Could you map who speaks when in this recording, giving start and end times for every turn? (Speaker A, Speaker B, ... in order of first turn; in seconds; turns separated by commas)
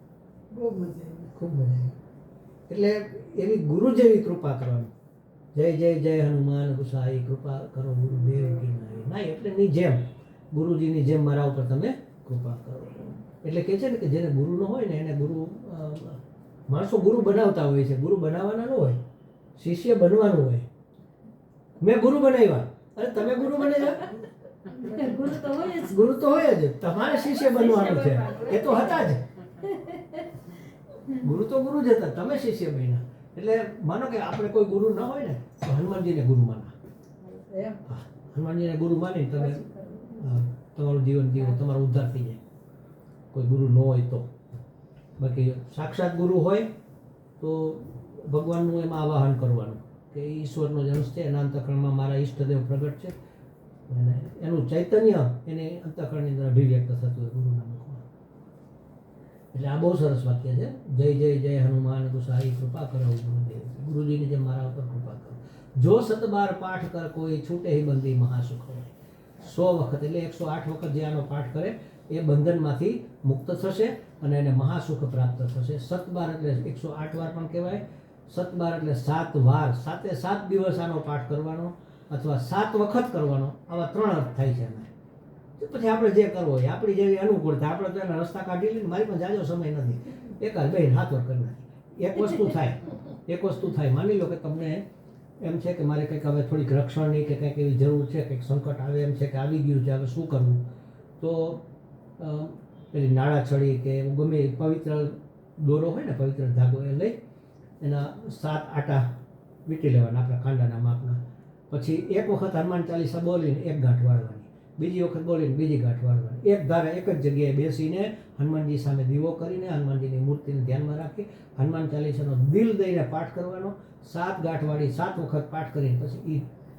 Speaker A: 0.5-1.3, Speaker B: 1.3-2.0, Speaker B: 2.7-4.9, Speaker B: 5.5-10.0, Speaker B: 10.5-19.0, Speaker B: 19.6-20.7, Speaker B: 21.8-24.2, Speaker C: 24.7-26.1, Speaker B: 25.6-29.2, Speaker A: 27.5-29.1, Speaker C: 27.8-28.3, Speaker B: 31.1-36.8, Speaker A: 37.2-37.8, Speaker B: 37.9-42.4, Speaker A: 39.4-40.2, Speaker B: 43.3-44.3, Speaker B: 45.2-46.7, Speaker B: 47.4-53.1, Speaker B: 53.9-58.0, Speaker B: 59.5-84.9, Speaker B: 85.6-94.8, Speaker B: 95.4-100.7, Speaker B: 101.2-101.7, Speaker B: 102.2-107.2, Speaker B: 107.8-126.5